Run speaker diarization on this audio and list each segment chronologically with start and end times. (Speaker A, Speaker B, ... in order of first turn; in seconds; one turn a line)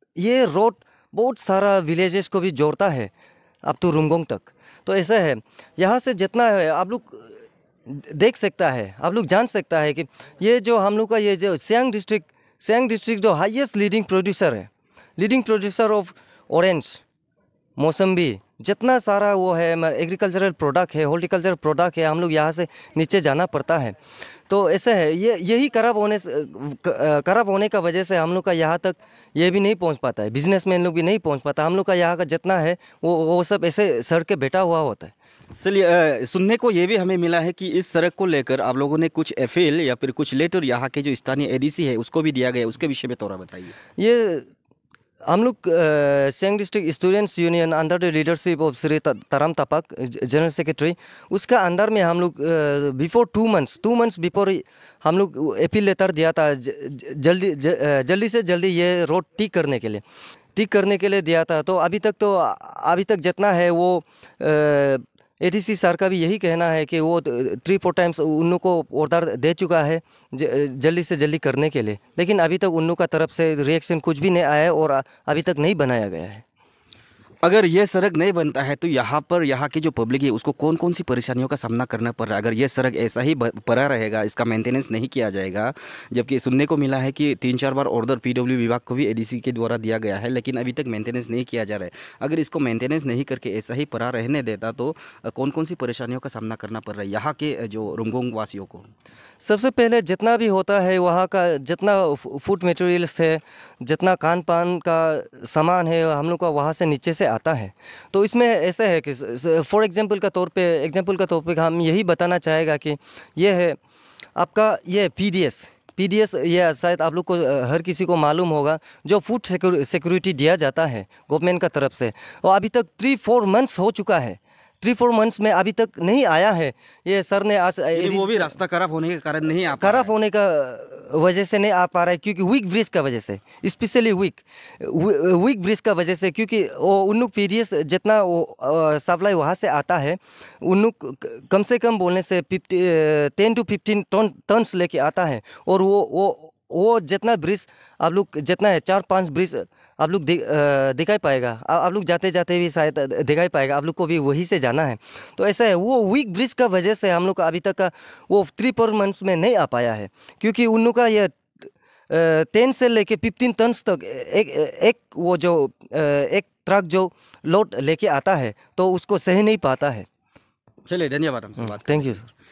Speaker A: 0.2-3.1
Speaker A: 3.6-17.0
Speaker A: 17.8-23.9
Speaker A: 24.5-35.1
Speaker B: 35.6-43.7
Speaker A: 44.0-44.5
Speaker A: 45.3-60.0
Speaker A: 60.5-76.4
Speaker B: 77.4-98.9
Speaker A: 99.4-113.8
Speaker A: 114.3-128.6
Speaker B: 127.9-130.1
Speaker A: 129.8-170.1
Speaker B: 170.8-172.2
Speaker A: 171.6-172.3